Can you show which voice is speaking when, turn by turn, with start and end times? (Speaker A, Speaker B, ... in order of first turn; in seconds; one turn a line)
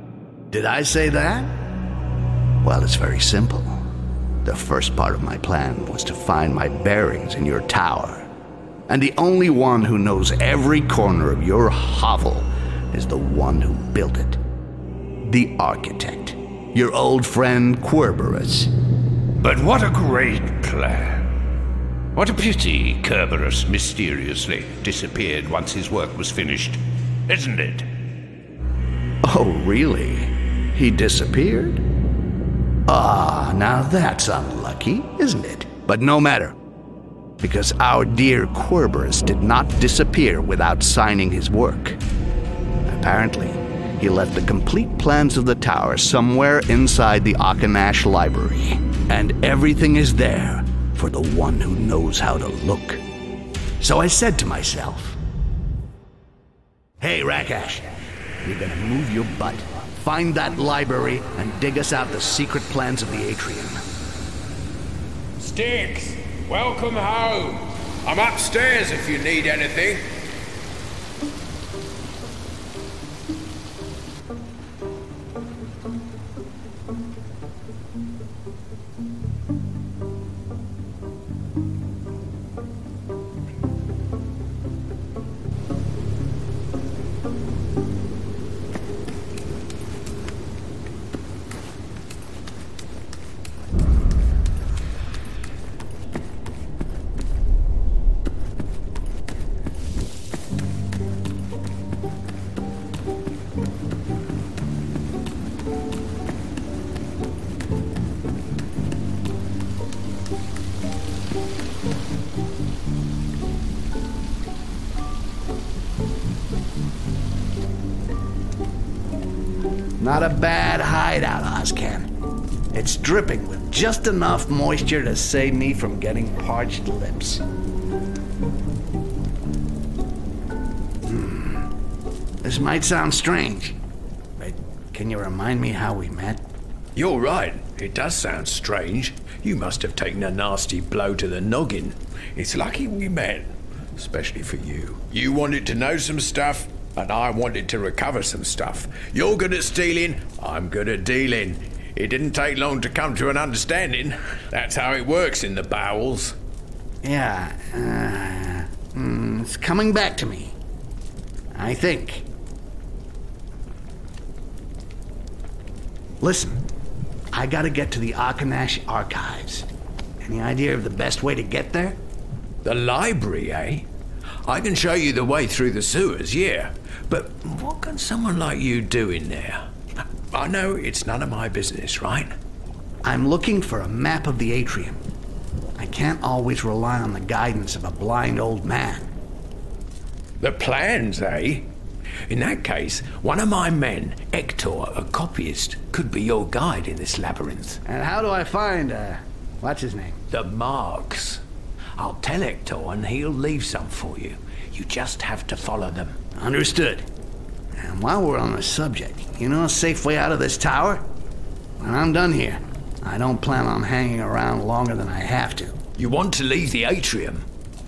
Speaker A: 0.5-1.5
Speaker A: 2.6-3.8
Speaker A: 4.4-8.3
Speaker A: 8.9-14.4
Speaker A: 15.2-18.7
Speaker B: 19.4-21.3
Speaker B: 22.1-27.9
Speaker A: 29.2-31.8
Speaker A: 32.9-36.5
Speaker A: 37.4-42.0
Speaker A: 42.9-53.0
Speaker A: 53.8-55.2
Speaker A: 57.0-57.9
Speaker A: 58.4-63.8
Speaker C: 65.4-70.0
Speaker A: 120.0-122.1
Speaker A: 122.7-127.4
Speaker A: 131.1-131.7
Speaker A: 132.4-133.8
Speaker A: 134.4-136.4
Speaker C: 137.0-156.4
Speaker A: 157.0-160.6
Speaker A: 161.6-162.3
Speaker A: 166.2-166.6
Speaker A: 167.3-169.7
Speaker A: 170.2-172.0
Speaker C: 172.6-173.9
Speaker C: 174.4-179.7
Speaker C: 180.3-182.3
Speaker A: 183.0-185.0
Speaker A: 185.8-189.1
Speaker C: 190.4-191.7
Speaker C: 192.3-197.8
Speaker A: 197.9-200.2
Speaker C: 200.3-201.4
Speaker C: 202.0-206.2
Speaker A: 206.4-207.1
Speaker A: 207.8-211.0
Speaker A: 211.8-215.8
Speaker C: 216.0-217.5